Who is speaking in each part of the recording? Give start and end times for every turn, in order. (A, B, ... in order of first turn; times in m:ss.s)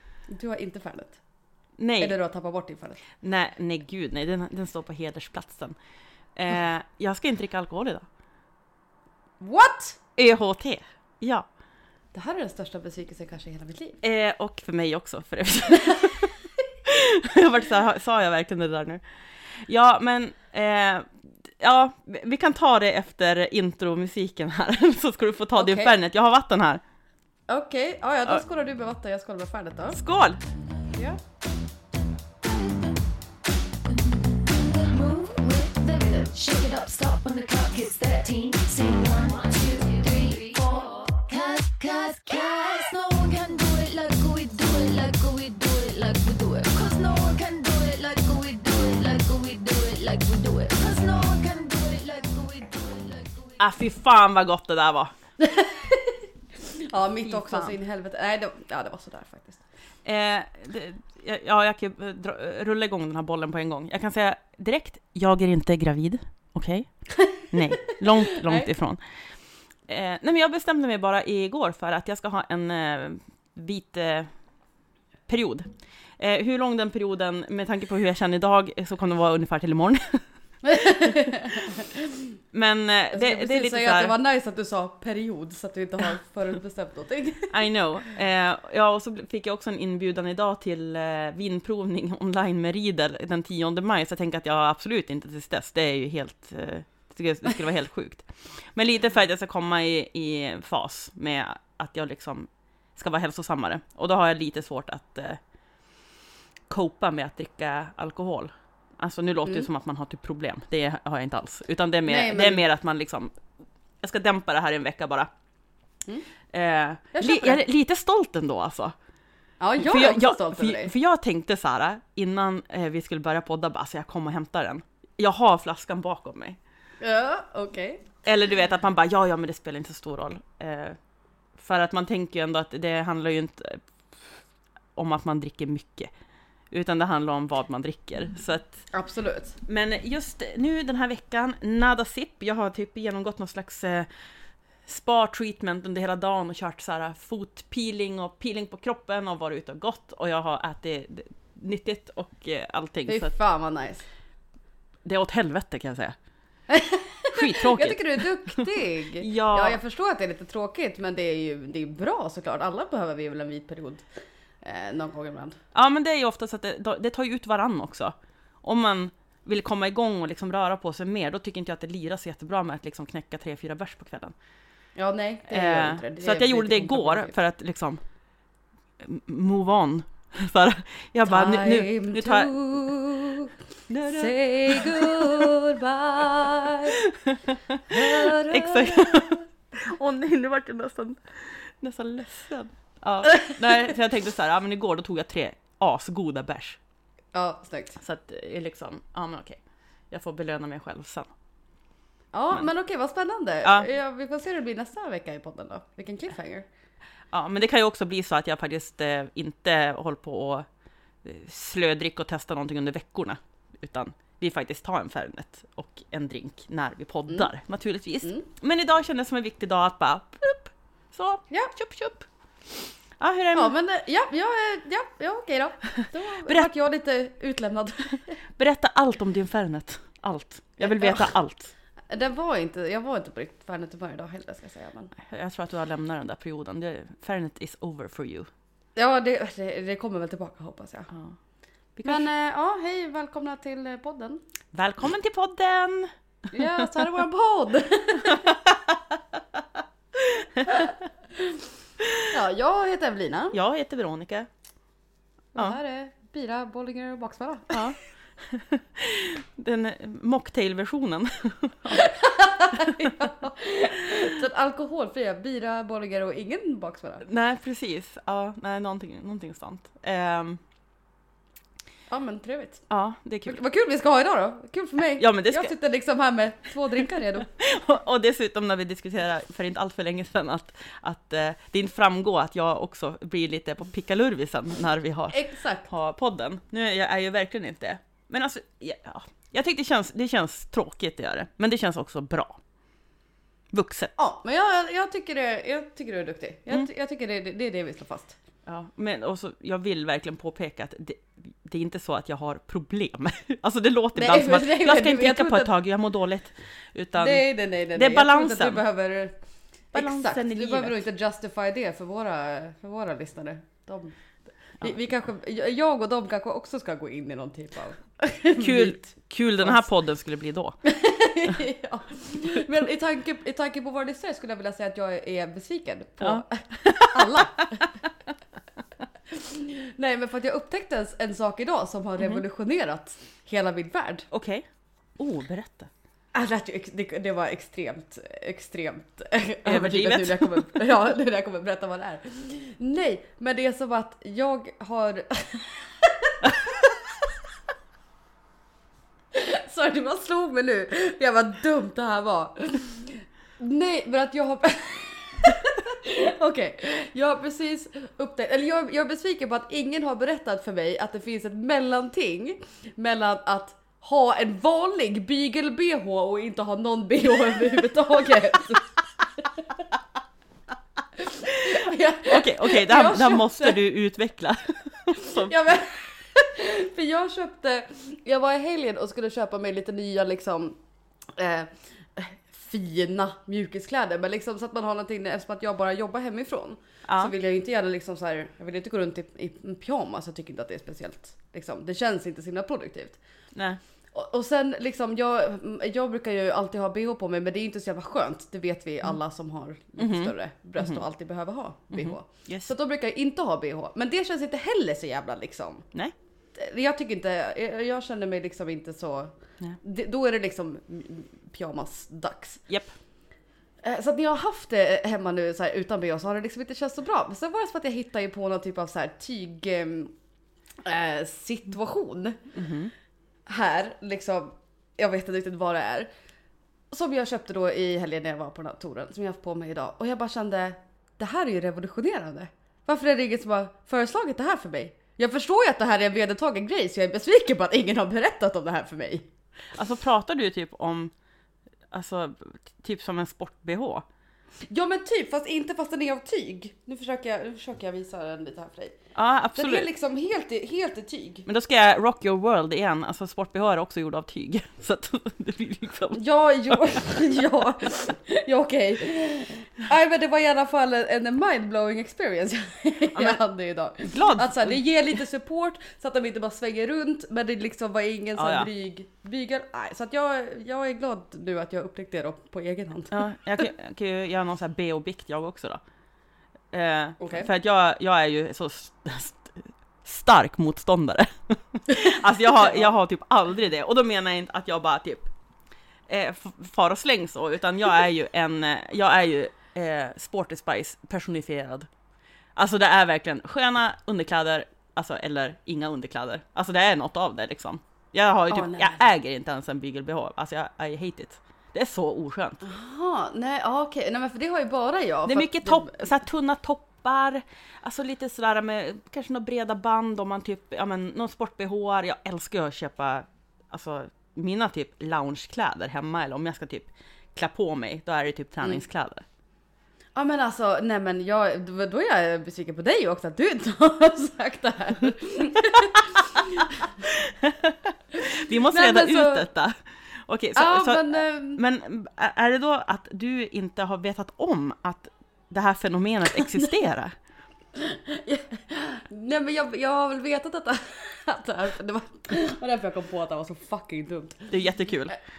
0:00.3-0:01.2 A
0:01.8-0:02.2 B
0:02.0-0:03.0 A
0:03.2-0:05.8 B
0:06.3-0:08.1 B
0:09.4-0:10.0 A
0:10.2-0:11.5 B
0:12.1-0:14.0 A
0:14.0-0:16.3 B
0:16.8-0:26.8 B
0:25.6-0:25.9 A
0:27.5-0:30.0 A
0:29.9-0:30.4 B
0:34.3-0:53.6 C
0:53.6-0:55.1 B
0:55.4-0:59.6 A
0:57.2-0:57.8 B
1:00.0-1:09.3 B
1:08.3-1:08.7 A
1:09.9-1:14.3 B
1:15.3-1:21.3 B
1:20.6-1:22.0 A
1:22.5-1:24.1 B
1:23.1-1:27.6 A
1:27.5-1:45.4 B
1:46.7-1:53.4 B
1:52.1-1:52.6 A
1:54.0-1:55.3 B
1:56.5-1:58.9 B
1:57.1-1:57.6 A
1:59.6-2:00.9 A
1:59.8-2:06.6 B
2:07.0-2:08.0 A
2:08.2-2:11.0 B
2:11.6-2:14.4 B
2:15.0-2:16.1 B
2:16.7-2:18.9 B
2:18.9-2:19.6 A
2:19.6-2:24.3 B
2:24.8-2:33.3 B
2:33.1-2:34.0 A
2:35.0-2:36.2 B
2:36.7-2:44.1 A
2:37.3-2:39.8 B
2:44.6-2:45.6 A
2:45.7-2:54.3 B
2:55.0-2:57.3 A
2:55.5-2:58.0 B
2:59.0-3:02.5 B
3:01.2-3:03.5 A
3:03.9-3:05.4 B
3:04.0-3:07.0 A
3:07.0-3:16.8 B
3:07.9-3:09.4 A
3:13.3-3:13.6 A
3:17.3-3:18.0 A
3:18.0-3:19.6 B
3:20.1-3:21.3 B
3:22.3-3:26.7 A
3:27.3-3:30.7 B
3:31.2-3:42.3 B
3:43.2-3:43.7 B
3:43.5-3:48.4 A
3:48.6-3:51.7 B
3:50.8-3:51.3 A
3:52.1-3:55.1 A
3:55.2-3:58.5 B
3:59.0-4:01.1 A
4:01.1-4:01.4 B
4:01.9-4:02.3 B
4:02.0-4:04.4 A
4:04.7-4:06.9 B
4:06.5-4:08.5 A
4:08.2-4:08.7 B
4:12.3-4:13.6 A
4:13.5-4:14.5 B
4:15.5-4:17.9 A
4:17.7-4:22.0 B
4:21.9-4:27.2 A
4:27.2-4:30.6 B
4:32.1-4:32.8 A
4:32.9-4:33.6 B
4:33.4-4:37.5 A
4:35.2-4:35.7 B
4:37.4-4:52.6 B
4:45.3-4:45.9 A
4:53.7-4:54.1 B
4:54.2-4:58.4 A
4:58.6-5:08.8 B
5:04.1-5:05.7 A
5:07.2-5:14.2 A
5:09.9-5:11.0 B
5:14.7-5:19.9 A
5:18.6-5:20.8 B
5:20.8-5:27.9 A
5:26.2-5:27.4 B
5:29.3-5:34.3 A
5:34.3-5:34.6 B
5:35.2-5:35.9 B
5:36.3-5:46.8 A
5:39.6-5:40.8 B
5:49.3-6:09.7 A
6:11.2-6:13.8 A
6:12.3-6:15.5 B
6:15.2-6:20.8 A
6:21.3-6:33.2 A
6:27.0-6:27.3 B
6:33.5-6:33.8 B
6:34.1-6:45.8 A
6:40.0-6:41.0 B
6:41.9-6:42.7 B
6:46.5-6:52.6 A
6:52.7-6:52.9 B
6:53.8-7:00.1 A
7:00.8-7:02.4 A
7:02.5-7:02.9 B
7:03.5-7:06.1 A
7:06.9-7:19.3 A
7:19.7-7:21.1 B
7:21.9-7:24.0 B
7:24.7-7:29.0 A
7:29.1-7:29.9 B
7:29.6-7:31.4 A
7:31.4-7:37.2 B
7:36.1-7:53.3 A
7:43.1-7:43.4 B
7:44.0-7:44.8 B
7:48.4-7:48.7 B
7:53.1-7:55.8 B
7:56.7-8:05.3 B
7:57.2-7:57.5 A
8:01.9-8:02.9 A
8:06.1-8:11.9 B
8:12.6-8:22.6 B
8:18.5-8:19.0 A
8:22.6-8:26.1 A
8:25.2-8:39.2 B
8:40.1-8:46.9 A
8:47.0-8:57.1 B
8:48.7-8:49.5 A
8:50.5-8:51.6 A
8:57.8-9:04.6 A
9:04.5-9:05.2 B